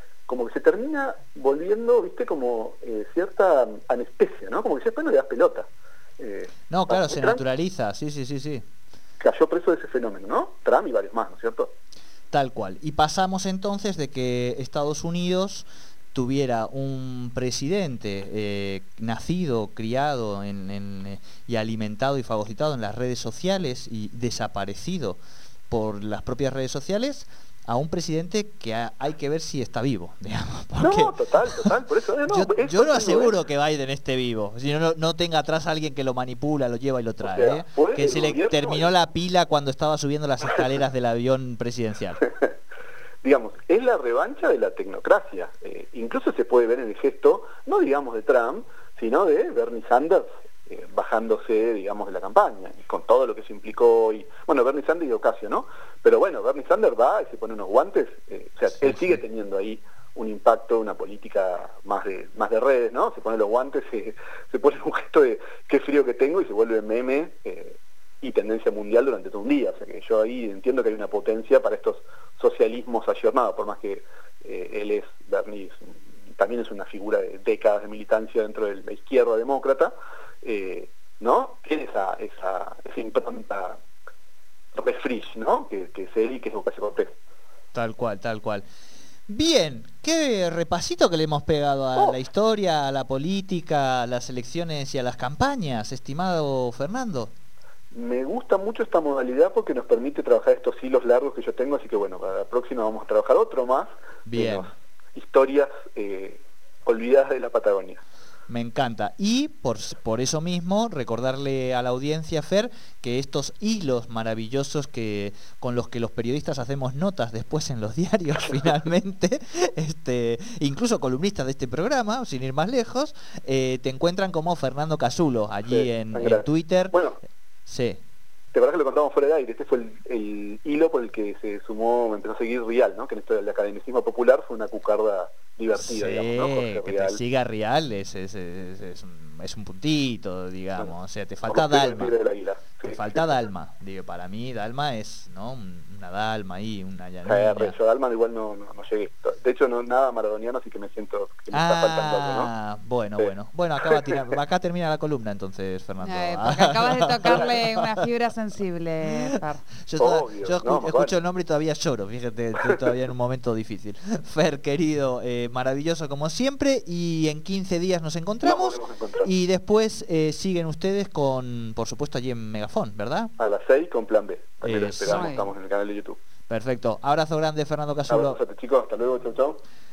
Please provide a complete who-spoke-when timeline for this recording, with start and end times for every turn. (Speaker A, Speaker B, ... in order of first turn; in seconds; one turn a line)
Speaker A: 0.3-5.7
Speaker A: 6.2-7.4
Speaker B: 6.7-8.7
Speaker A: 9.2-11.7
Speaker B: 12.3-31.7
Speaker A: 30.8-33.4
Speaker B: 32.3-42.2
Speaker A: 37.2-38.9
Speaker A: 42.2-42.5
Speaker A: 43.2-79.9
Speaker B: 58.8-59.2
Speaker A: 80.4-83.8
Speaker A: 84.8-87.1
Speaker B: 87.7-88.6
Speaker B: 89.3-97.3
Speaker A: 97.9-108.0
Speaker B: 104.3-104.7
Speaker B: 108.5-127.0
Speaker A: 125.7-127.2
Speaker B: 127.7-128.0
Speaker A: 128.5-137.2
Speaker B: 135.8-142.2
Speaker A: 141.5-143.3
Speaker B: 142.9-147.8
Speaker A: 147.2-152.5
Speaker B: 151.5-158.0
Speaker A: 153.9-154.2
Speaker C: 156.0-159.6
Speaker B: 159.8-173.3
Speaker A: 160.0-161.2
Speaker A: 168.4-169.3
Speaker A: 173.4-176.2
Speaker B: 174.6-175.3
Speaker C: 175.1-175.5
Speaker B: 176.5-178.4
Speaker A: 178.1-179.6